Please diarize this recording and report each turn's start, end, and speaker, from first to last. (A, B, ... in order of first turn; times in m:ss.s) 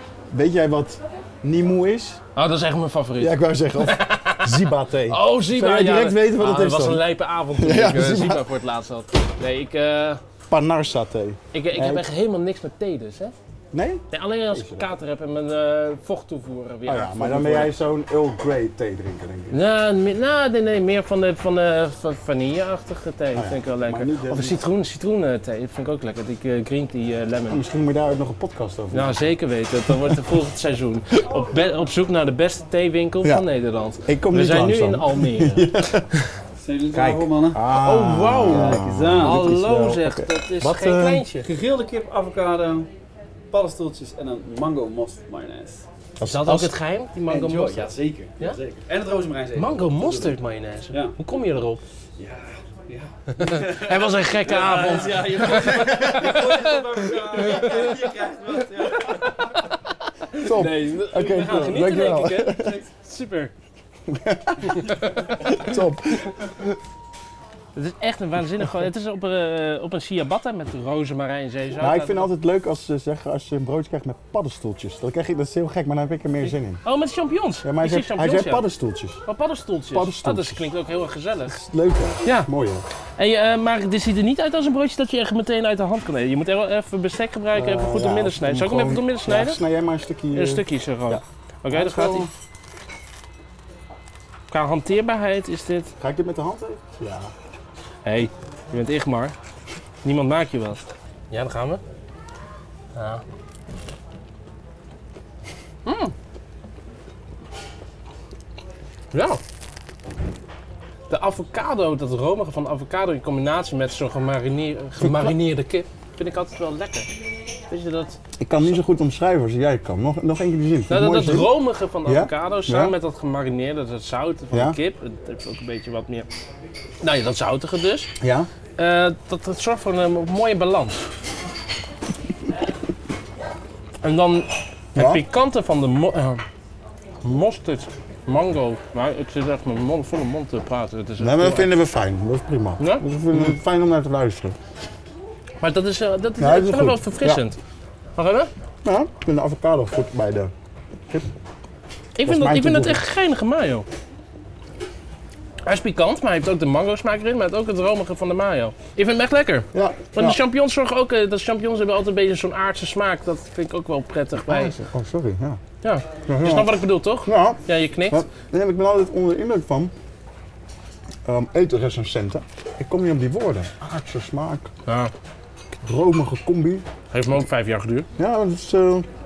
0:00.3-0:02.2 A
0:02.4-0:10.2 B
0:03.2-0:07.0 A
0:07.5-0:08.4 A
0:10.5-0:12.0 A
0:11.5-0:13.3 B
0:13.7-0:14.9 A
0:14.1-0:17.7 B
0:16.8-0:19.6 A
0:19.5-0:27.6 B
0:23.3-0:24.6 A
0:27.5-0:29.2 A
0:28.9-0:35.7 B
0:29.9-0:30.2 A
0:34.0-0:36.1 A
0:36.6-0:37.6 C
0:36.9-0:41.2 A
0:37.7-0:41.5 B
0:38.4-0:39.5 C
0:41.4-0:42.9 C
0:43.5-0:45.8 C
0:46.2-0:46.7 A
0:46.2-0:48.6 B
0:47.3-0:50.4 C
0:49.6-0:51.8 B
0:50.9-0:51.2 C
0:52.2-0:59.4 C
0:53.3-0:56.8 B
0:55.8-0:56.1 A
0:57.4-0:58.0 B
1:00.3-1:03.5 B
1:00.4-1:02.7 A
1:01.4-1:01.9 C
1:02.5-1:02.8 C
1:04.1-1:06.7 A
1:04.7-1:05.4 B
1:07.8-1:12.3 B
1:11.7-1:16.8 A
1:16.4-1:18.6 B
1:17.6-1:19.2 A
1:19.2-1:21.5 B
1:19.9-1:20.7 A
1:21.5-1:22.8 A
1:22.2-1:22.5 B
1:23.2-1:29.6 B
1:27.5-1:32.3 A
1:30.3-1:32.3 B
1:34.5-1:35.9 B
1:36.0-1:37.3 A
1:38.0-1:39.3 B
1:40.0-1:41.8 B
1:42.9-1:43.2 B
1:45.8-1:46.1 B
1:49.1-1:49.4 B
1:51.1-1:57.1 B
1:55.0-1:55.3 A
1:57.7-1:58.2 B
1:58.4-2:01.5 A
2:00.9-2:06.3 B
2:02.0-2:02.9 A
2:04.5-2:04.8 A
2:07.0-2:08.1 B
2:08.2-2:08.5 A
2:08.8-2:11.0 B
2:14.0-2:16.4 B
2:14.9-2:15.2 A
2:17.2-2:21.7 B
2:21.2-2:24.6 A
2:22.8-2:23.5 B
2:25.6-2:27.6 B
2:26.4-2:27.4 A
2:28.2-2:28.5 B
2:28.8-2:30.5 A
2:32.2-2:33.8 B
2:32.2-2:33.0 A
2:35.6-2:44.7 B
2:39.7-2:40.4 A
2:44.4-2:45.6 A
2:45.8-2:48.2 B
2:46.3-2:49.9 A
2:51.2-2:54.7 A
2:54.8-2:55.1 B
2:55.8-2:56.8 A
2:57.1-2:58.1 B
2:58.2-2:59.1 A